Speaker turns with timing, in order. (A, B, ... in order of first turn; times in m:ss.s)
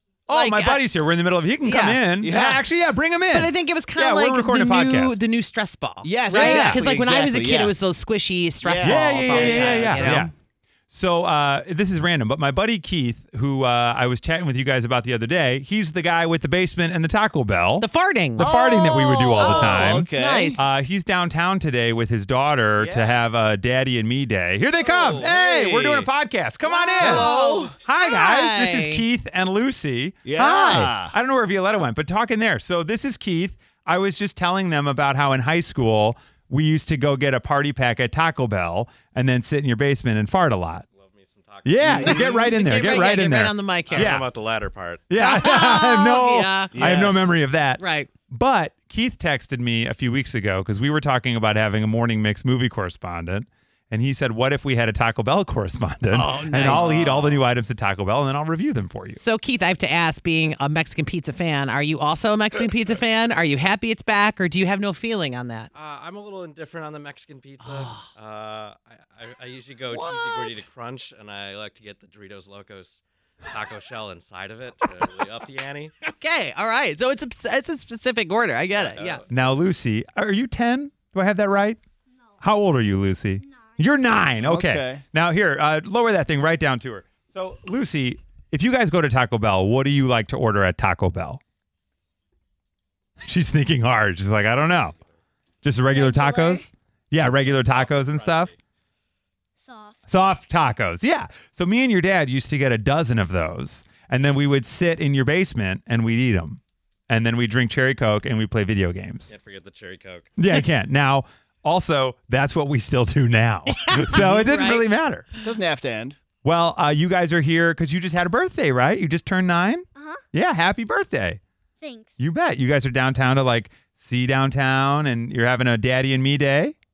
0:00.3-0:05.2 A
0:00.3-0:00.8 B
0:01.6-0:02.0 B
0:02.2-0:02.6 C
0:03.3-0:10.3 B
0:06.0-0:07.7 C
0:06.3-0:06.8 A
0:08.6-0:10.2 C
0:08.8-0:10.3 A
0:10.9-0:40.8 A
0:17.8-0:18.5 B
0:18.4-0:20.6 C
0:19.4-0:20.6 B
0:22.8-0:23.2 C
0:24.8-0:26.1 C
0:26.8-0:29.0 B
0:27.0-0:27.7 C
0:30.2-0:31.1 C
0:40.9-0:42.3 D
0:41.6-0:44.3 A
0:41.8-0:42.5 C
0:42.0-0:44.2 B
0:43.9-0:45.3 D
0:45.1-0:59.2 A
0:45.2-0:47.0 B
0:46.7-0:47.3 C
0:47.8-0:48.1 B
0:56.1-0:57.0 B
0:56.6-0:57.0 D
0:59.2-1:05.7 B
1:05.7-1:15.9 D
1:07.6-1:08.1 B
1:09.9-1:10.6 B
1:16.0-1:19.2 B
1:18.7-1:19.4 D
1:19.3-1:21.8 A
1:22.4-1:31.4 A
1:23.5-1:23.8 E
1:24.4-1:25.0 C
1:33.2-1:34.9 A
1:35.6-1:38.5 A
1:36.0-1:36.7 E
1:37.2-1:38.6 D
1:39.6-1:40.0 E
1:40.1-1:49.3 A
1:49.3-1:50.3 D
1:50.4-1:55.2 A
1:53.7-1:54.9 B
1:55.4-1:56.2 C
1:56.4-2:01.4 A
1:59.9-2:00.2 E
2:01.8-2:02.2 E
2:02.2-2:06.7 A